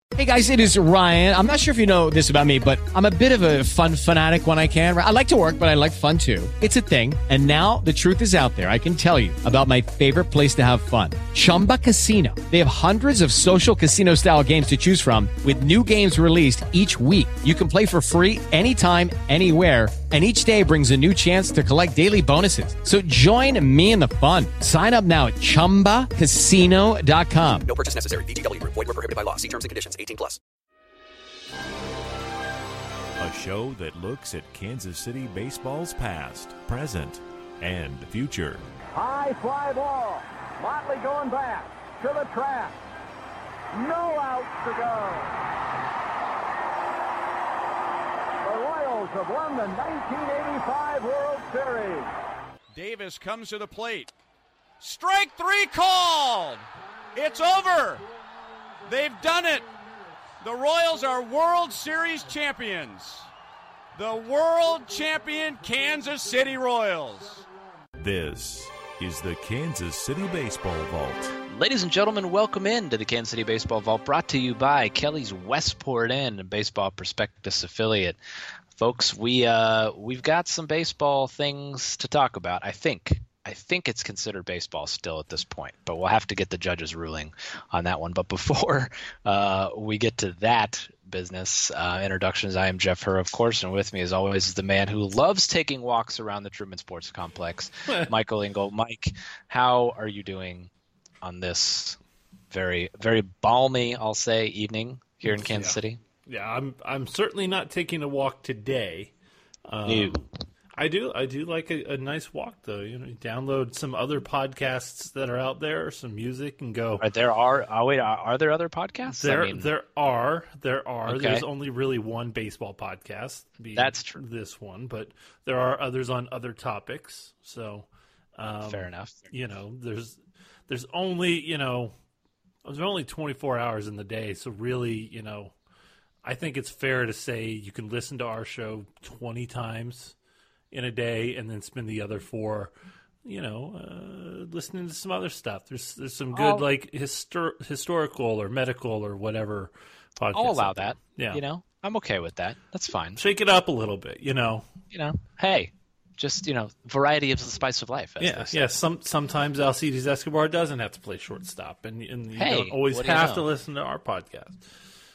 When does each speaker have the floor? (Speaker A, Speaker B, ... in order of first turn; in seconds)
Speaker A: 0.1-27.7
Speaker B: 27.6-30.4
Speaker C: 33.2-38.7, 68.0-71.3
Speaker D: 38.9-42.8, 43.7-45.3, 48.4-52.1
Speaker E: 52.7-54.1, 54.8-58.0, 58.9-59.7, 60.4-63.3, 63.9-67.5
Speaker F: 71.5-78.2, 78.8-100.7, 101.2-102.0, 102.5-106.0, 109.8-110.2, 117.0-119.7, 121.1-121.5, 123.7-124.2, 128.7-129.3, 146.3-146.7, 150.3-153.2, 154.9-158.6, 162.3-163.4
Speaker G: 105.3-109.1, 109.7-117.0, 119.1-130.2, 130.7-131.9, 132.6-135.5, 136.2-140.1, 140.7-142.7, 143.2-151.4, 153.2-154.7, 158.2-164.6